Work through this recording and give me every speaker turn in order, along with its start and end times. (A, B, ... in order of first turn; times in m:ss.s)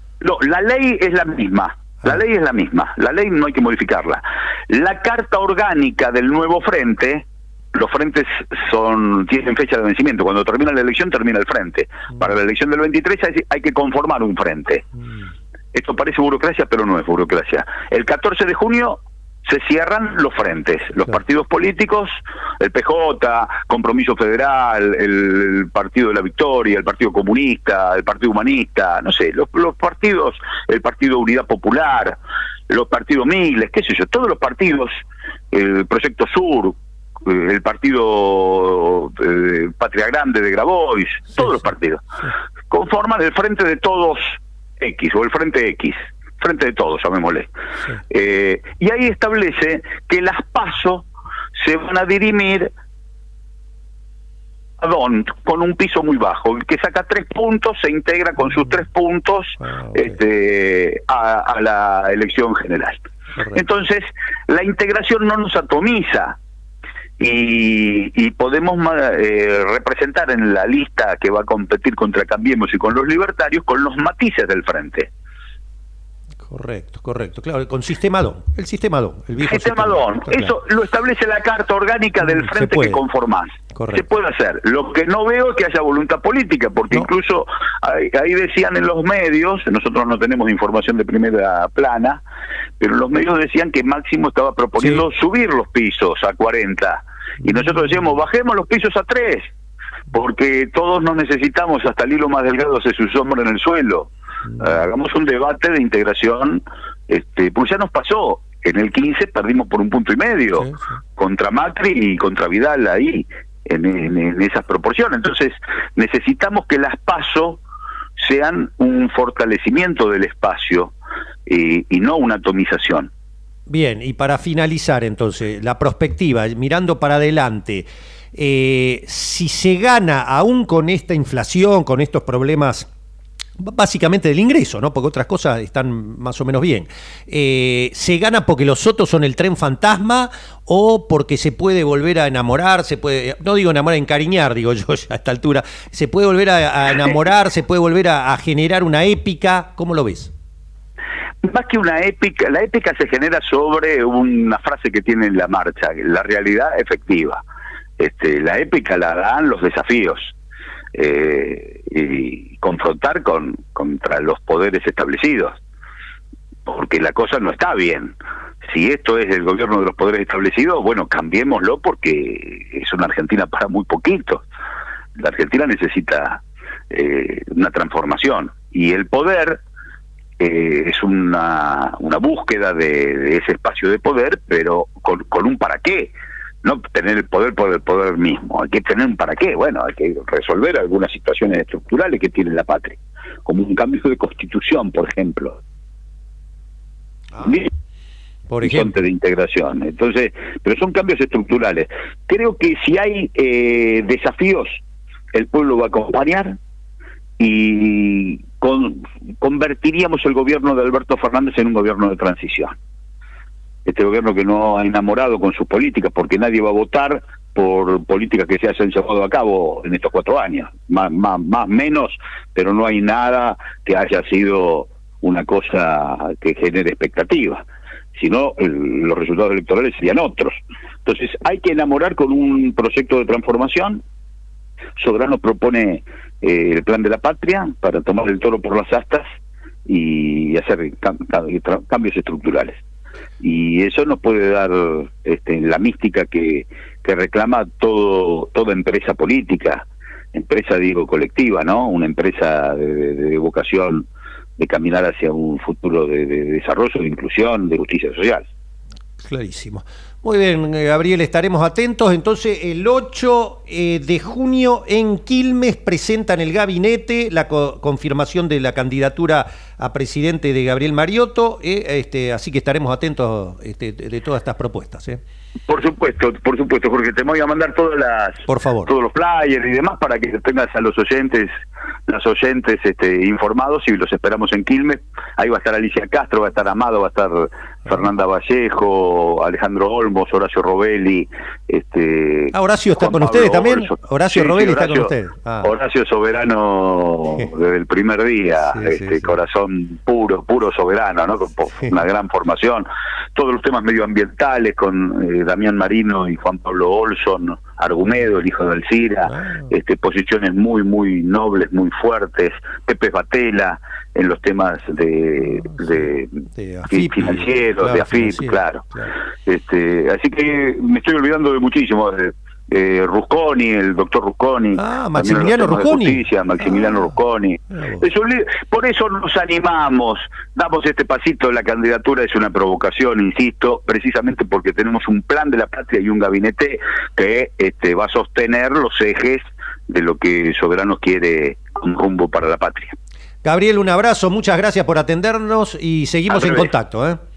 0:00.2-0:14.9 A
0:15.7-0:32.2 A
0:32.7-0:34.9 A
0:35.5-0:42.0 A
0:42.7-0:47.5 A
0:48.1-0:52.7 A
0:54.8-1:03.0 A
0:59.6-1:00.2 B
1:03.5-1:06.4 A
1:07.2-1:15.1 A
1:16.4-1:20.5 B
1:19.4-1:32.2 A
1:22.2-1:23.0 B
1:23.7-1:24.0 B
1:32.8-1:39.5 A
1:37.5-1:38.0 B
1:40.1-1:50.7 A
1:50.6-1:51.0 B
1:51.2-1:57.6 A
1:58.2-2:00.9 A
2:01.5-2:03.1 A
2:03.7-2:12.9 B
2:13.6-2:30.3 B
2:31.4-2:37.4 A
2:38.0-2:40.3 A
2:40.9-2:45.6 A
2:46.6-2:54.4 A
2:55.2-2:59.6 A
3:00.4-3:15.6 A
3:17.3-3:17.6 B
3:17.4-3:17.7 A
3:18.5-3:19.0 B
3:18.6-3:24.8 A
3:25.3-3:26.6 A
3:27.4-3:32.7 A
3:33.9-3:47.6 A
3:48.1-3:54.0 A
3:55.0-3:59.2 A
3:59.9-4:02.8 A
4:03.4-4:14.1 A
4:14.6-4:18.4 A
4:19.2-4:35.2 B
4:35.7-4:41.5 A
4:38.5-4:38.9 B
4:42.1-5:18.9 A
4:52.5-4:55.7 B
4:58.7-4:59.3 B
5:09.3-5:09.7 B
5:15.6-5:19.1 B
5:19.4-5:42.9 A
5:24.8-5:27.1 B
5:27.7-5:28.0 B
5:43.4-5:47.2 B
5:46.3-5:46.7 A